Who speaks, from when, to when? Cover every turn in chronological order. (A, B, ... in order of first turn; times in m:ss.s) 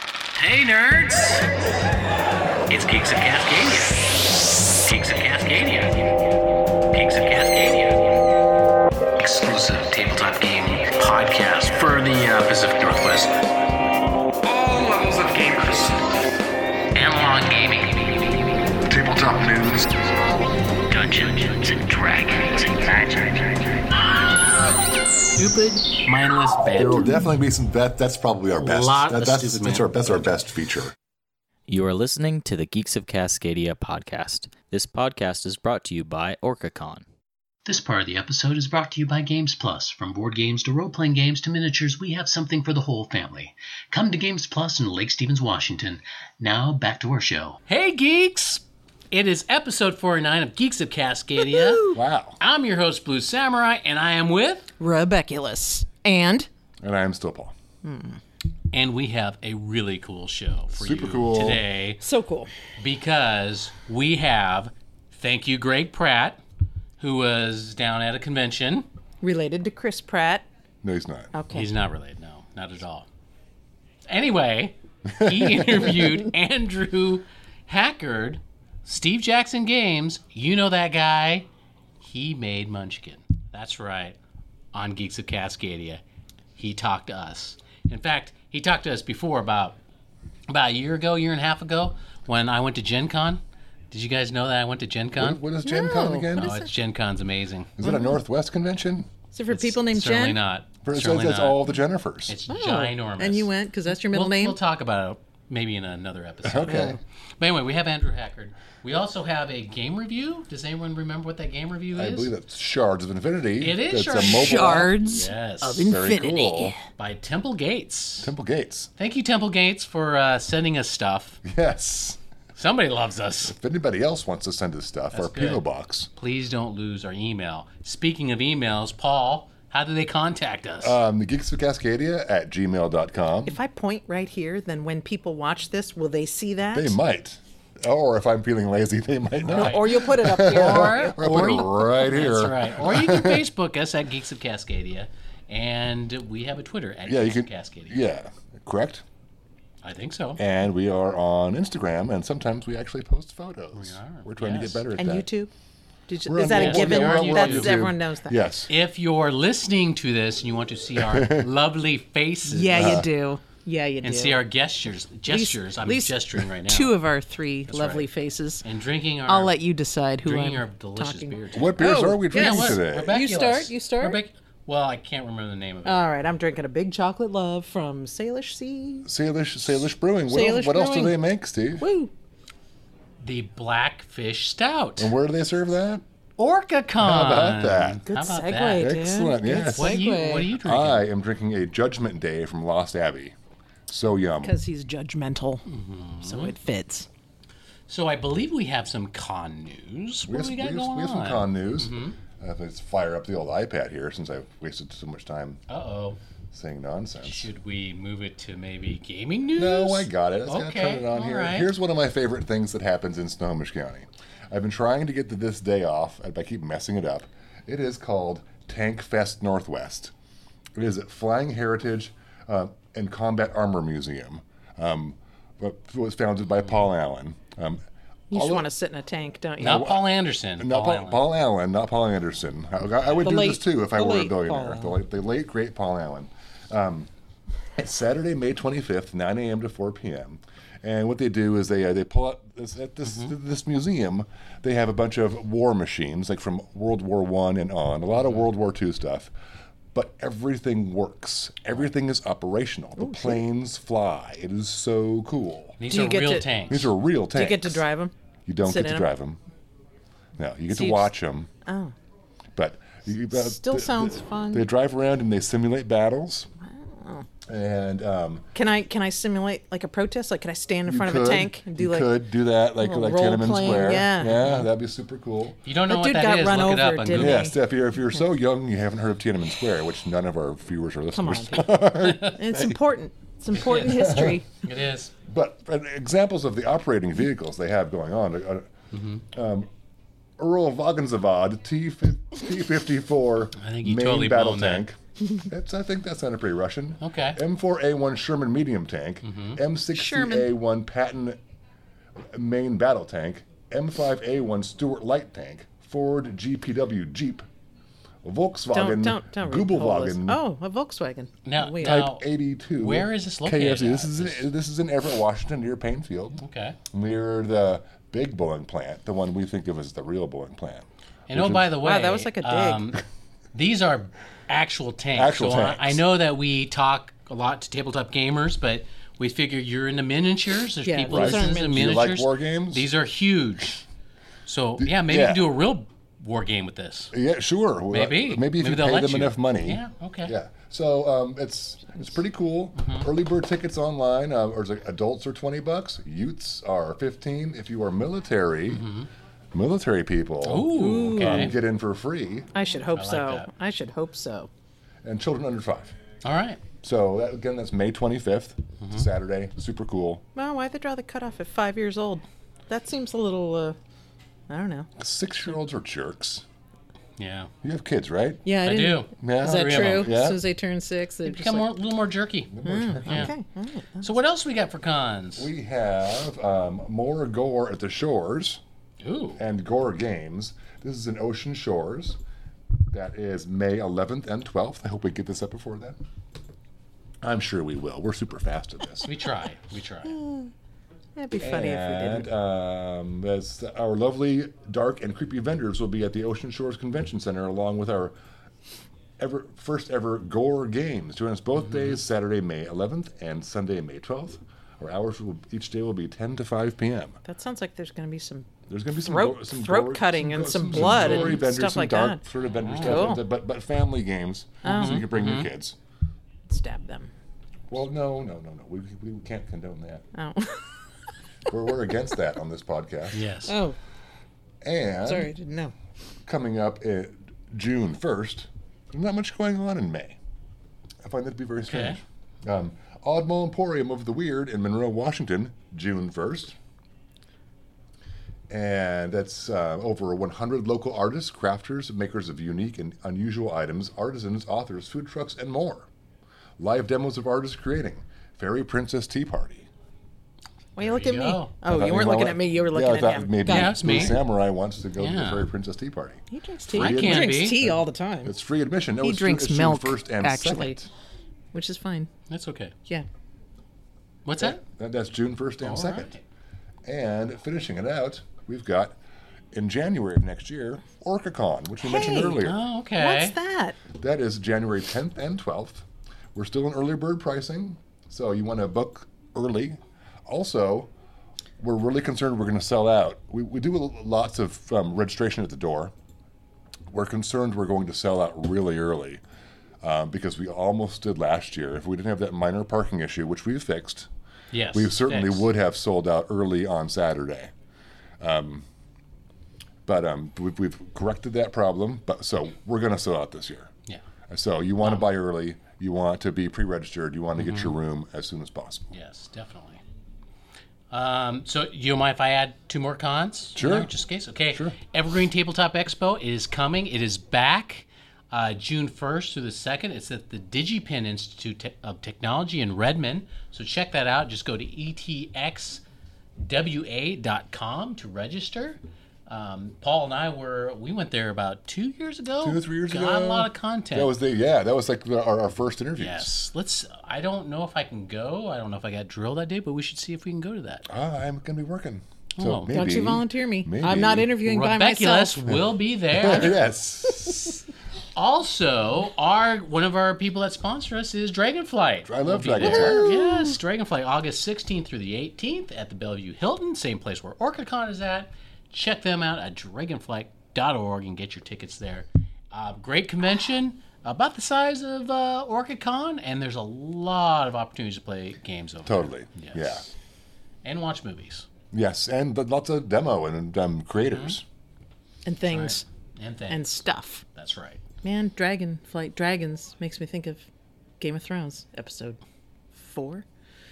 0:00.3-0:01.4 A
0:02.7-0:04.0 A
0:04.8-0:06.1 A
0:06.9-0:08.0 A
0:09.2-0:13.3 A
0:14.4-0:16.0 B
0:16.9-0:18.0 A
0:18.8-0:19.9 B
0:20.9-0:23.3 A
0:25.3-0:27.1 A
0:26.7-0:30.9 B
0:28.5-0:30.3 A
0:31.7-0:37.0 C
0:37.6-0:47.6 D
0:37.7-0:39.0 A
0:39.6-0:40.1 A
0:42.2-0:42.5 A
0:43.0-0:43.3 A
0:45.4-0:45.7 A
0:46.8-0:51.8 A
0:51.4-0:52.0 E
0:51.9-0:52.4 B
0:52.4-0:54.7 A
0:54.8-0:56.5 E
0:56.8-0:57.5 B
0:57.8-0:58.2 E
0:58.7-1:02.0 A
1:00.7-1:01.6 B
1:02.0-1:02.5 E
1:02.8-1:06.4 A
1:07.0-1:08.9 A
1:09.2-1:10.4 E
1:10.8-1:11.3 B
1:11.3-1:11.7 E
1:11.5-1:13.1 A
1:14.1-1:21.5 A
1:15.1-1:15.9 B
1:22.0-1:24.2 A
1:24.7-1:26.0 A
1:26.5-1:29.8 A
1:30.5-1:35.4 A
1:35.2-1:36.6 B
1:35.6-1:36.7 E
1:36.3-1:37.8 A
1:37.8-1:39.1 B
1:37.8-1:38.1 E
1:39.3-1:40.4 E
1:39.5-1:41.7 A
1:40.8-1:42.4 B
1:42.3-1:43.5 A
1:42.5-1:44.6 E
1:44.1-1:52.3 A
1:46.4-1:47.0 B
1:46.7-1:47.0 E
1:51.9-1:55.2 B
1:53.6-1:56.2 A
1:54.2-1:56.8 E
1:55.8-1:56.7 B
1:56.8-1:58.3 A
1:58.2-1:58.9 B
1:59.0-2:01.4 A
2:01.4-2:02.2 B
2:02.5-2:03.5 A
2:03.4-2:06.1 B
2:05.1-2:05.6 A
2:06.1-2:11.0 A
2:10.8-2:13.6 B
2:13.4-2:16.9 E
2:16.7-2:23.5 B
2:19.4-2:19.8 A
2:19.4-2:21.5 E
2:20.7-2:28.0 A
2:27.0-2:29.0 B
2:29.8-2:30.4 A
2:30.4-2:35.3 B
2:33.7-2:34.8 A
2:35.0-2:35.5 E
2:36.1-2:38.4 E
2:36.3-2:38.7 B
2:36.5-2:37.8 A
2:38.7-2:43.0 A
2:40.9-2:41.5 B
2:42.4-2:44.4 E
2:42.7-2:43.1 B
2:44.0-2:46.9 A
2:45.2-2:48.6 E
2:47.7-2:48.1 A
2:48.6-2:49.5 A
2:49.2-2:54.2 E
2:50.2-2:56.0 A
2:51.5-2:53.1 B
2:55.8-2:59.1 E
2:59.0-3:01.8 B
3:00.3-3:01.2 E
3:01.8-3:02.1 E
3:03.2-3:05.1 A
3:05.0-3:06.0 B
3:06.4-3:08.9 A
3:07.0-3:08.0 B
3:08.1-3:10.5 E
3:08.8-3:13.3 B
3:09.5-3:11.0 A
3:13.9-3:14.6 B
3:14.4-3:15.6 E
3:15.7-3:16.5 A
3:16.2-3:17.1 E
3:17.9-3:22.2 A
3:20.3-3:25.6 B
3:25.7-3:26.2 A
3:26.5-3:27.5 B
3:27.2-3:31.7 A
3:29.6-3:40.1 B
3:40.7-3:48.7 B
3:48.3-3:49.9 E
3:49.6-3:51.3 A
3:49.6-3:57.1 B
3:53.2-3:54.9 E
3:57.8-4:09.3 B
4:03.0-4:03.3 A
4:08.2-4:08.4 A
4:09.9-4:15.8 B
4:13.0-4:13.4 E
4:15.8-4:16.9 A
4:15.9-4:16.5 E
4:16.7-4:17.8 B
4:17.3-4:18.1 E
4:18.4-4:19.4 B
4:18.6-4:19.1 E
4:20.4-4:21.5 B
4:20.7-4:21.1 E
4:21.6-4:21.9 E
4:22.6-4:26.5 B
4:23.3-4:24.6 E
4:26.6-4:27.3 E
4:27.5-4:28.5 B
4:28.5-4:32.2 E
4:30.8-4:35.6 B
4:32.7-4:34.5 E
4:34.4-4:34.7 A
4:35.6-4:37.5 A
4:35.9-4:37.6 E
4:37.1-4:42.8 B
4:41.1-4:44.4 E
4:42.0-4:42.3 A
4:43.5-4:44.4 B
4:43.6-4:43.8 A
4:44.6-4:45.1 A
4:45.2-4:48.7 B
4:48.9-4:49.2 A
4:49.3-4:49.7 B
4:50.4-5:01.4 B
4:53.6-4:54.8 A
4:57.0-4:57.4 A
4:59.2-4:59.6 A
4:59.9-5:00.5 E
5:02.2-5:07.4 B
5:08.2-5:10.4 B
5:08.7-5:12.0 E
5:11.4-5:12.2 A
5:11.8-5:21.7 B
5:12.8-5:14.5 A
5:16.4-5:16.8 A
5:21.3-5:23.0 A
5:21.8-5:22.8 E
5:23.5-5:33.8 A
5:25.1-5:26.0 B
5:30.8-5:32.0 E
5:31.1-5:32.9 B
5:34.4-5:37.1 A
5:34.8-5:35.5 B
5:37.1-5:48.8 B
5:37.9-5:40.3 A
5:42.8-5:43.1 A
5:48.7-5:49.1 A
5:49.5-5:52.5 B
5:50.4-5:51.6 A
5:50.7-5:51.5 E
5:52.5-5:54.5 E
5:52.9-5:53.5 A
5:55.0-5:55.9 B
5:56.2-5:56.6 A
5:56.8-6:00.2 B
5:58.8-5:59.1 A
6:00.3-6:03.8 E
6:04.5-6:04.9 E
6:05.0-6:06.4 B
6:07.2-6:07.5 A
6:07.6-6:08.4 B
6:08.4-6:11.7 E
6:08.6-6:10.1 A
6:09.1-6:10.4 B
6:11.2-6:13.3 A
6:12.5-6:13.3 B
6:12.6-6:14.2 E
6:14.0-6:15.5 A
6:15.4-6:18.6 B
6:19.0-6:19.4 A
6:19.4-6:22.2 B
6:22.9-6:26.0 B
6:27.2-6:29.1 B
6:29.0-6:30.2 A
6:30.0-6:30.5 E
6:31.2-6:32.3 E
6:31.4-6:38.1 B
6:39.2-6:47.2 B
6:41.6-6:42.0 A
6:47.2-6:52.2 E
6:48.7-6:55.8 B
6:50.7-6:51.4 A
6:52.6-6:53.1 A
6:52.8-6:53.2 E
6:54.6-6:55.0 E
6:54.6-6:55.5 A
6:56.5-6:57.1 E
6:57.7-7:00.0 B
7:00.1-7:00.8 E
7:01.5-7:03.2 B
7:03.1-7:03.5 A
7:03.5-7:03.8 E
7:04.6-7:05.3 B
7:05.0-7:05.7 E
7:06.2-7:10.2 B
7:11.0-7:16.6 B
7:11.6-7:12.0 A
7:18.5-7:25.9 B
7:26.6-7:29.7 B
7:30.8-7:34.2 E
7:30.8-7:31.5 A
7:31.6-7:40.9 B
7:33.4-7:34.2 A
7:35.0-7:35.5 A
7:36.3-7:38.3 E
7:36.7-7:37.6 A
7:39.0-7:40.8 E
7:41.5-7:42.1 E
7:42.3-7:42.7 A
7:44.2-7:44.6 A
7:44.4-7:46.1 B
7:45.6-7:46.2 A
7:46.8-7:49.0 B
7:49.5-7:52.6 B
7:51.8-7:52.4 E
7:52.4-7:53.3 A
7:53.0-7:53.8 E
7:53.9-8:00.9 B
8:01.6-8:05.9 B
8:06.9-8:09.2 B
8:09.8-8:14.1 B
8:14.5-8:15.5 A
8:14.7-8:17.5 B
8:18.2-8:18.6 B
8:19.8-8:23.7 B
8:24.3-8:28.9 B
8:24.8-8:25.1 A
8:27.4-8:27.7 A
8:28.9-8:29.8 A
8:30.9-8:45.8 A
8:33.6-8:33.9 B
8:46.4-8:54.1 A
8:52.4-8:56.4 B
8:56.0-9:00.8 A
9:00.8-9:04.4 B
9:02.4-9:02.8 A
9:02.7-9:05.4 E
9:04.4-9:06.6 A
9:06.1-9:07.6 B
9:08.1-9:29.9 A
9:12.1-9:13.1 B
9:12.6-9:13.6 E
9:28.8-9:29.8 B
9:30.6-9:31.5 A
9:31.7-9:34.4 B
9:34.1-9:34.4 A
9:35.2-9:35.8 E
9:35.5-9:36.6 A
9:36.5-9:37.2 E
9:37.3-9:37.8 A
9:38.0-9:40.5 E
9:41.0-9:42.2 E
9:42.7-9:43.2 E